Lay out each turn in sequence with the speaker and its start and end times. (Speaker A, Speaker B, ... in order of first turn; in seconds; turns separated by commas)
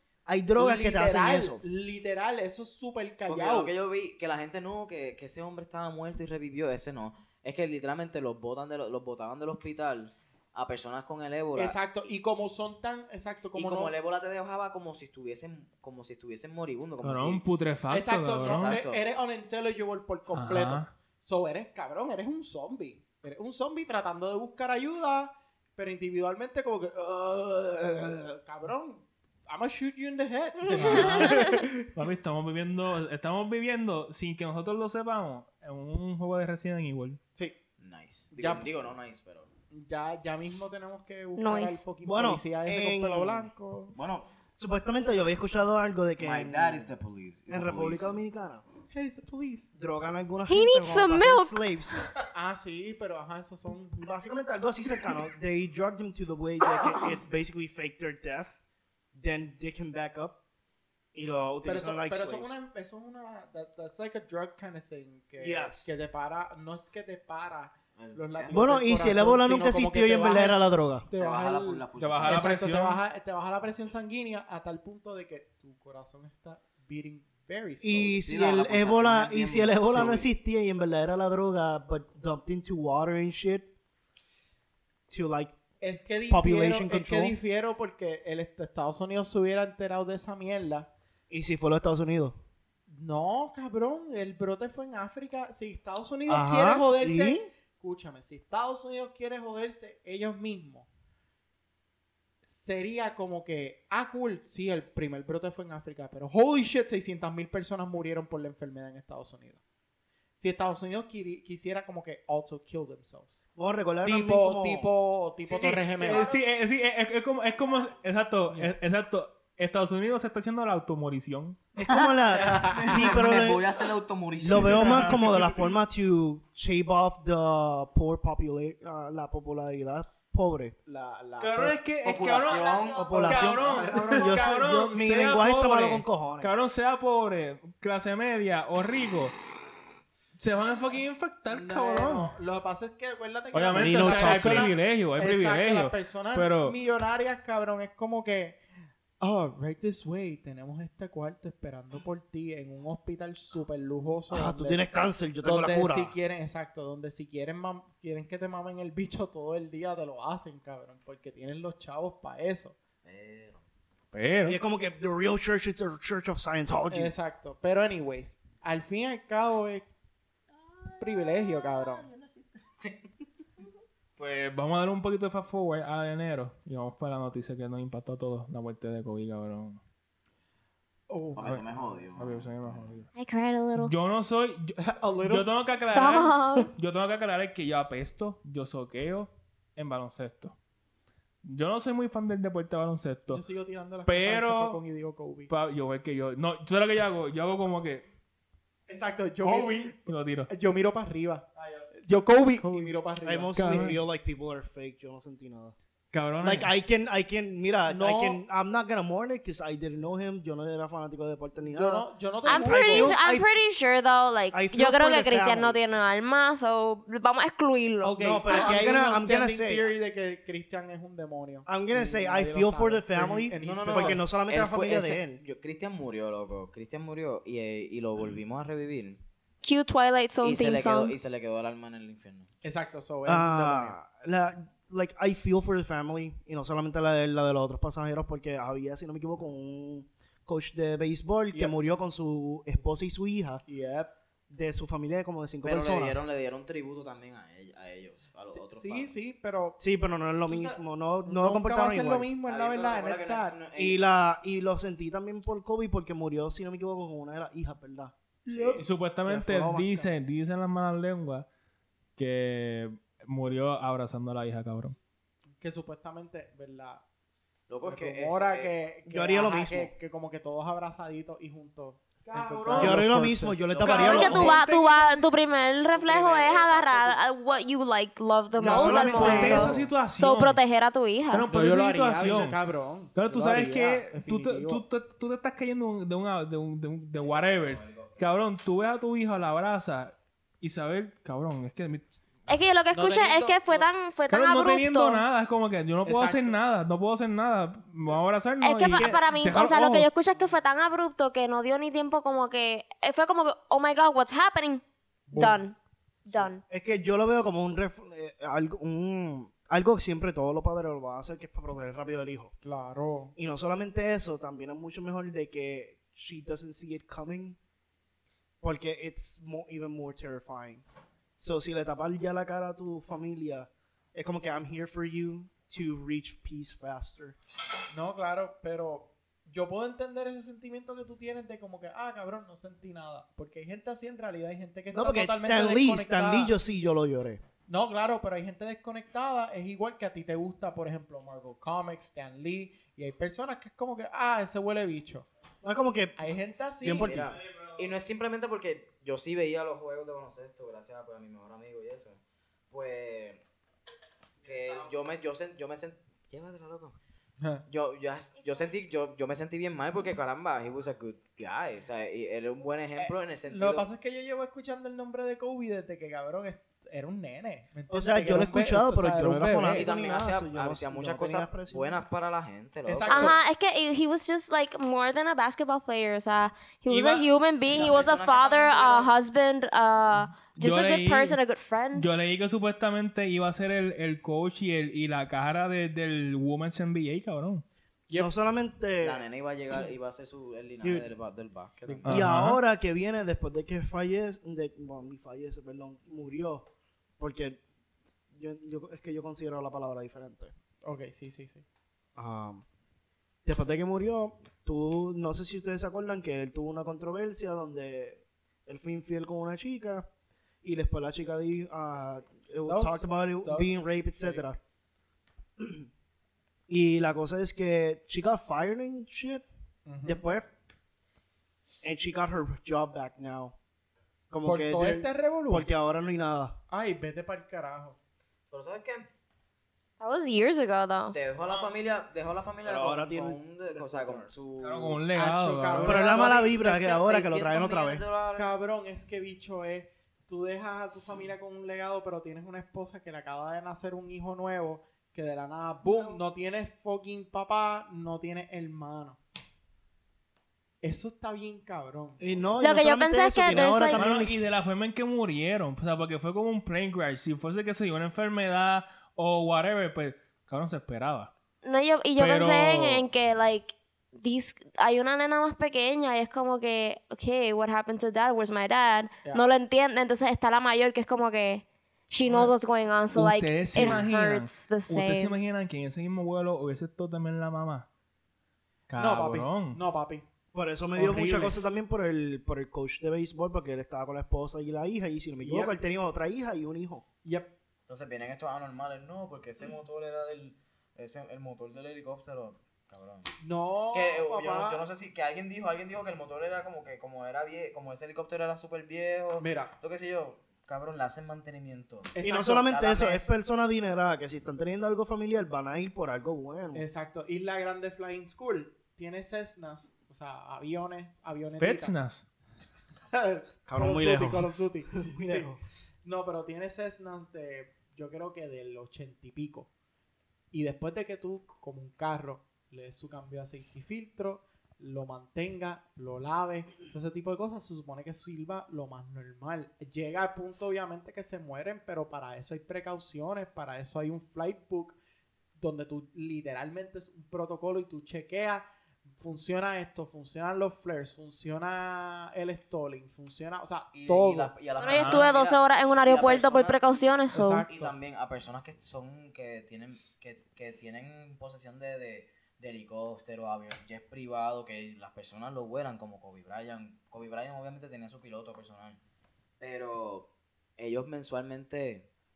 Speaker A: 0.3-1.6, Speaker B: 0.6-3.7, Speaker C: 3.3-11.8, Speaker B: 11.5-13.9, Speaker C: 13.6-17.4, Speaker D: 17.0-18.7, Speaker B: 17.9-31.9, Speaker C: 18.4-19.0, Speaker D: 20.3-20.9, Speaker D: 30.7-37.2, Speaker E: 30.9-31.5, Speaker C: 37.8-39.5, Speaker B: 38.3-38.7, Speaker B: 39.7-44.0, Speaker E: 41.4-41.8, Speaker A: 42.0-43.5, Speaker C: 43.9-44.3, Speaker A: 44.5-46.9, Speaker C: 46.2-48.1, Speaker A: 47.5-48.6, Speaker B: 48.9-49.7, Speaker A: 49.8-52.0, Speaker E: 50.5-52.0, Speaker B: 52.3-54.0, Speaker A: 54.0-58.5, Speaker A: 59.1-60.4, Speaker A: 61.1-62.5, Speaker B: 61.6-78.2, Speaker A: 65.4-65.9, Speaker C: 68.0-68.6, Speaker A: 68.5-71.1, Speaker C: 71.1-72.5, Speaker D: 72.0-73.0, Speaker A: 77.8-83.7, Speaker C: 78.2-80.3, Speaker A: 85.1-85.5, Speaker B: 85.8-90.9, Speaker A: 86.3-87.3, Speaker A: 91.3-92.4, Speaker B: 92.9-100.9, Speaker A: 96.3-97.5, Speaker B: 102.4-109.6, Speaker B: 110.4-113.4, Speaker A: 113.5-114.9, Speaker B: 114.0-116.3, Speaker D: 115.5-121.6, Speaker B: 118.5-118.8, Speaker A: 121.8-123.7, Speaker C: 121.9-125.4, Speaker B: 122.3-123.3, Speaker A: 124.4-130.7, Speaker B: 124.5-125.5, Speaker D: 124.5-125.2, Speaker B: 130.8-131.8, Speaker D: 131.4-139.3, Speaker C: 132.0-133.3, Speaker A: 132.9-136.5, Speaker B: 133.0-134.6, Speaker D: 140.4-142.3, Speaker B: 141.5-148.6, Speaker D: 143.5-146.8, Speaker A: 143.7-144.7, Speaker B: 149.2-154.8, Speaker A: 154.3-156.1, Speaker B: 155.4-162.8, Speaker C: 163.0-163.6, Speaker D: 164.1-164.6, Speaker A: 164.4-167.1, Speaker B: 166.9-169.9, Speaker B: 171.0-172.1, Speaker C: 171.8-173.0, Speaker D: 174.2-179.8, Speaker B: 181.1-182.0, Speaker C: 181.3-182.9, Speaker D: 182.2-183.1, Speaker E: 183.1-183.9, Speaker D: 183.8-190.5, Speaker B: 184.8-185.5, Speaker E: 185.8-186.7, Speaker D: 191.4-193.4, Speaker B: 193.3-195.5, Speaker D: 194.0-194.8, Speaker D: 195.5-198.0, Speaker B: 198.9-199.9, Speaker D: 199.4-200.5, Speaker B: 200.5-204.0, Speaker D: 202.6-202.9, Speaker A: 203.2-205.7, Speaker D: 203.6-204.0, Speaker D: 206.1-206.7, Speaker A: 206.4-213.5, Speaker B: 207.9-208.4, Speaker B: 211.6-213.2, Speaker E: 212.4-218.6, Speaker A: 214.5-215.8, Speaker B: 218.0-224.3, Speaker A: 218.2-219.8, Speaker A: 221.7-225.4, Speaker C: 223.6-229.2, Speaker E: 229.6-231.2, Speaker C: 230.4-232.5, Speaker B: 232.6-234.0, Speaker A: 233.2-243.6, Speaker B: 243.7-244.1, Speaker A: 244.5-246.2, Speaker C: 245.6-249.1, Speaker B: 248.5-249.8, Speaker A: 249.8-252.3, Speaker C: 250.5-250.8, Speaker B: 251.2-253.6, Speaker C: 252.4-254.0, Speaker A: 253.8-258.1, Speaker B: 258.4-258.8, Speaker C: 258.5-258.8, Speaker D: 258.8-261.4, Speaker A: 259.2-260.1, Speaker D: 262.2-264.9, Speaker B: 265.6-267.0, Speaker C: 267.7-268.7, Speaker B: 267.7-273.7, Speaker A: 269.1-269.9, Speaker D: 272.2-273.2, Speaker A: 272.8-274.6, Speaker C: 273.6-274.6, Speaker D: 273.8-275.3, Speaker E: 273.9-281.5, Speaker C: 275.9-277.2, Speaker A: 278.6-279.9, Speaker D: 278.6-280.6, Speaker B: 279.1-279.7, Speaker D: 281.3-282.6, Speaker B: 281.4-284.8, Speaker D: 283.1-292.2, Speaker C: 287.2-288.2, Speaker E: 292.5-295.2, Speaker B: 292.9-293.9, Speaker D: 294.3-300.1, Speaker B: 296.0-296.6, Speaker E: 298.6-304.8, Speaker A: 298.9-299.2, Speaker B: 305.3-305.6, Speaker E: 305.3-305.7, Speaker E: 306.3-306.6, Speaker A: 306.7-312.5, Speaker B: 312.6-313.3, Speaker A: 313.4-317.6, Speaker A: 318.6-320.8, Speaker A: 321.4-327.4, Speaker B: 327.9-336.5, Speaker A: 334.9-337.4, Speaker B: 337.7-345.2, Speaker A: 345.6-346.1, Speaker B: 346.2-347.2, Speaker A: 346.8-347.4, Speaker C: 346.9-352.2, Speaker C: 352.7-353.4, Speaker C: 354.4-356.9, Speaker C: 357.7-363.9, Speaker B: 363.0-369.9, Speaker A: 367.9-372.0, Speaker C: 369.6-373.4, Speaker B: 372.9-373.4, Speaker E: 373.1-382.1, Speaker D: 376.9-377.2, Speaker C: 377.7-379.1, Speaker D: 380.3-381.4, Speaker D: 381.9-387.6, Speaker A: 388.1-389.2, Speaker C: 389.0-392.2, Speaker A: 390.8-391.1, Speaker B: 391.9-392.2, Speaker D: 392.0-392.6, Speaker A: 392.1-396.6, Speaker A: 397.2-397.6, Speaker A: 398.3-400.5, Speaker B: 400.8-401.6, Speaker A: 402.2-402.6, Speaker A: 403.4-410.1, Speaker A: 410.6-414.6, Speaker B: 412.6-414.5, Speaker A: 415.6-415.9, Speaker A: 416.7-419.4, Speaker B: 419.9-420.2, Speaker A: 420.0-420.5, Speaker A: 421.8-423.5, Speaker A: 424.3-426.6, Speaker B: 424.4-425.7, Speaker B: 426.7-428.0, Speaker C: 428.5-429.1, Speaker E: 430.0-431.2, Speaker C: 431.1-435.0, Speaker D: 431.4-431.8, Speaker A: 432.6-434.3, Speaker D: 434.6-436.1, Speaker B: 435.1-436.9, Speaker A: 435.8-438.0, Speaker C: 436.1-438.5, Speaker B: 438.4-449.2, Speaker B: 450.8-452.2, Speaker A: 452.2-454.4, Speaker E: 452.6-454.2, Speaker D: 453.9-461.3, Speaker E: 461.6-475.3, Speaker D: 462.2-463.1, Speaker D: 473.1-477.9, Speaker D: 478.9-479.8, Speaker B: 479.0-480.2, Speaker A: 480.5-487.0, Speaker D: 480.9-481.6, Speaker B: 485.4-485.7, Speaker B: 487.2-487.5, Speaker C: 487.9-493.3, Speaker B: 493.4-494.8, Speaker C: 493.9-503.2, Speaker B: 499.4-499.7, Speaker B: 502.1-503.3, Speaker A: 502.2-506.9, Speaker B: 506.7-511.9, Speaker D: 511.4-512.2, Speaker B: 512.8-515.5, Speaker A: 513.7-515.6, Speaker B: 516.0-519.7, Speaker B: 520.5-535.0, Speaker B: 535.6-544.5, Speaker C: 543.9-559.0, Speaker E: 544.8-547.7, Speaker D: 544.9-545.3, Speaker B: 547.3-547.9, Speaker C: 559.6-562.1